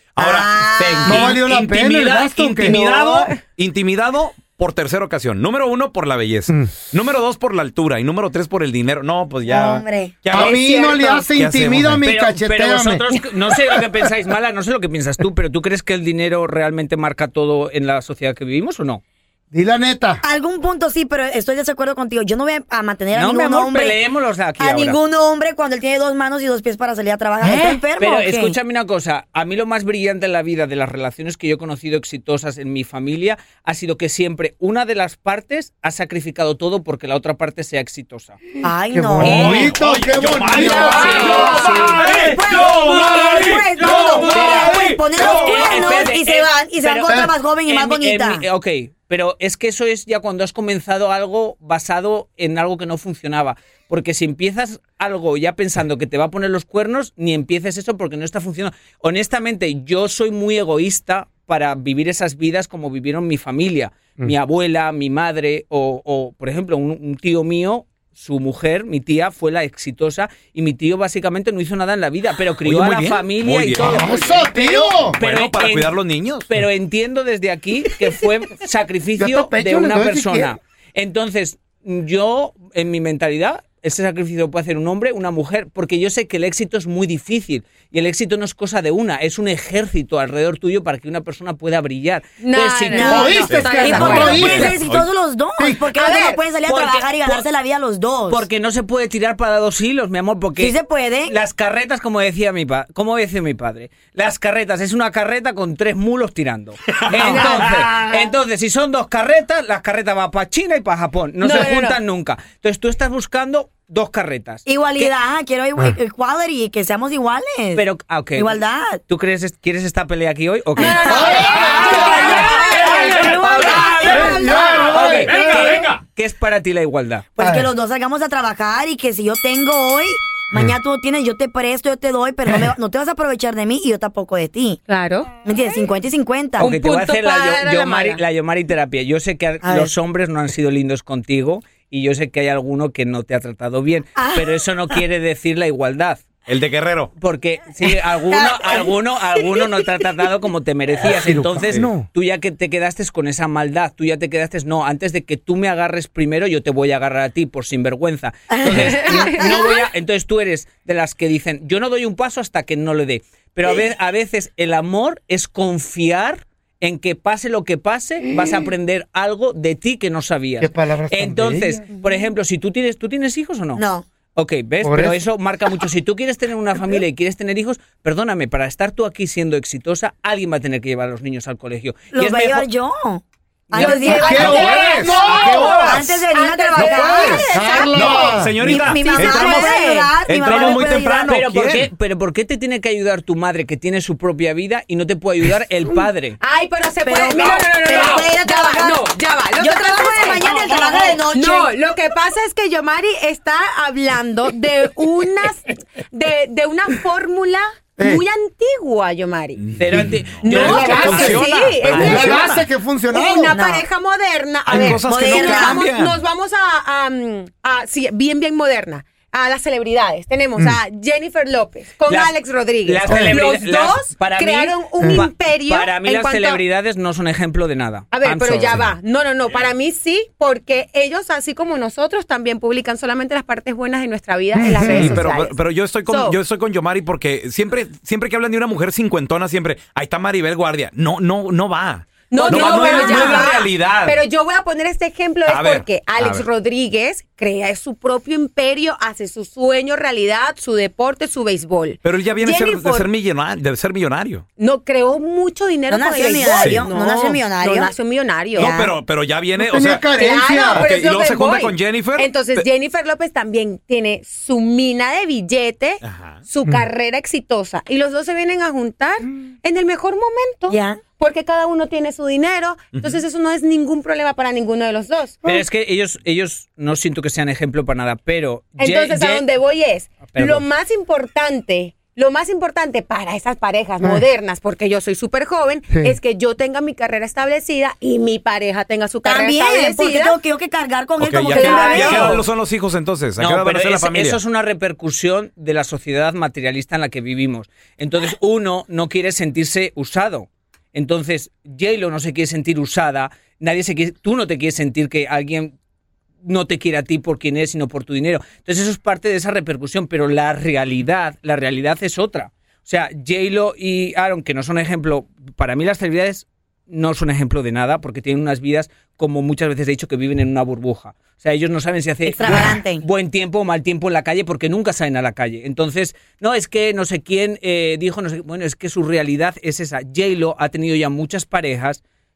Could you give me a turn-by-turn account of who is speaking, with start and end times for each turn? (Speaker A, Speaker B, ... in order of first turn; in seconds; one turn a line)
Speaker A: 0.1-10.6
Speaker B: 0.2-1.4
Speaker C: 1.0-3.1
Speaker C: 6.5-6.7
Speaker B: 9.5-10.2
Speaker C: 10.3-13.0
Speaker D: 10.4-11.2
Speaker A: 11.2-12.1
Speaker E: 12.0-19.0
Speaker C: 19.5-20.2
Speaker B: 20.2-24.0
Speaker E: 23.1-25.0
Speaker B: 24.6-28.6
Speaker E: 27.9-38.4
Speaker B: 38.6-39.7
Speaker C: 38.9-41.7
Speaker E: 39.2-39.7
Speaker A: 39.2-46.0
Speaker B: 40.6-48.4
Speaker E: 40.6-42.0
Speaker E: 44.3-94.7
Speaker C: 47.1-47.3
Speaker A: 72.6-74.4
Speaker C: 73.8-75.2
Speaker A: 75.0-76.6
Speaker C: 79.2-80.5
Speaker D: 92.4-94.8
Speaker B: 92.9-98.5
Speaker C: 93.0-94.7
Speaker A: 93.3-95.1
Speaker C: 95.6-95.9
Speaker D: 95.9-96.4
Speaker E: 96.6-97.5
Speaker E: 98.3-115.1
Speaker B: 100.6-101.4
Speaker A: 107.0-107.7
Speaker B: 107.1-108.3
Speaker D: 107.2-107.6
Speaker D: 111.4-112.0
Speaker B: 114.7-119.0
Speaker E: 117.7-127.2
Speaker C: 120.8-122.5
Speaker B: 120.8-125.0
Speaker D: 120.9-122.7
Speaker A: 121.5-126.0
Speaker C: 124.0-125.9
Speaker B: 127.3-134.8
Speaker C: 127.4-127.7
Speaker D: 134.9-135.3
Speaker B: 135.3-136.7
Speaker E: 136.6-146.2
Speaker D: 136.6-138.2
Speaker B: 139.6-139.9
Speaker B: 144.2-145.0
Speaker A: 146.5-147.1
Speaker E: 147.2-173.8
Speaker B: 147.8-149.8
Speaker C: 151.2-152.1
Speaker A: 151.5-151.9
Speaker B: 158.5-159.6
Speaker D: 158.9-159.7
Speaker C: 170.6-171.8
Speaker B: 173.8-174.1
Speaker E: 174.3-182.7
Speaker C: 174.8-175.2
Speaker B: 182.1-191.3
Speaker E: 183.7-184.7
Speaker C: 183.8-185.8
Speaker A: 184.2-191.9
Speaker D: 184.7-187.5
Speaker C: 186.9-188.9
Speaker D: 189.0-190.1
Speaker E: 190.5-196.4
Speaker D: 196.4-209.6
Speaker B: 197.0-199.0
Speaker B: 199.6-201.7
Speaker C: 208.0-208.2
Speaker A: 209.6-212.7
Speaker E: 209.8-212.2
Speaker D: 210.4-226.6
Speaker B: 210.5-211.4
Speaker C: 210.7-211.4
Speaker C: 211.9-213.6
Speaker B: 213.5-213.8
Speaker A: 214.7-216.2
Speaker B: 214.8-215.8
Speaker E: 222.1-222.3
Speaker E: 222.8-228.8
Speaker C: 223.0-223.4
Speaker C: 225.0-225.2
Speaker D: 228.1-236.4
Speaker C: 234.5-235.2
Speaker A: 234.9-244.2
Speaker D: 242.3-253.1
Speaker A: 245.4-246.5
Speaker A: 252.0-254.4
Speaker D: 254.6-258.7
Speaker B: 255.9-257.9
Speaker A: 256.6-256.9
Speaker B: 258.5-258.9
Speaker A: 258.6-260.2
Speaker C: 259.5-260.9
Speaker D: 260.1-275.4
Speaker A: 260.7-262.7
Speaker A: 266.0-266.4
Speaker B: 270.7-271.0
Speaker A: 272.9-273.2
Speaker E: 275.4-279.4
Speaker D: 278.8-290.4
Speaker E: 280.2-280.6
Speaker C: 284.0-284.2
Speaker C: 285.9-286.2
Speaker B: 289.2-292.4
Speaker A: 291.2-294.4
Speaker E: 291.5-292.4
Speaker D: 291.6-292.3
Speaker E: 293.4-305.7
Speaker E: 306.4-332.0
Speaker B: 322.2-323.1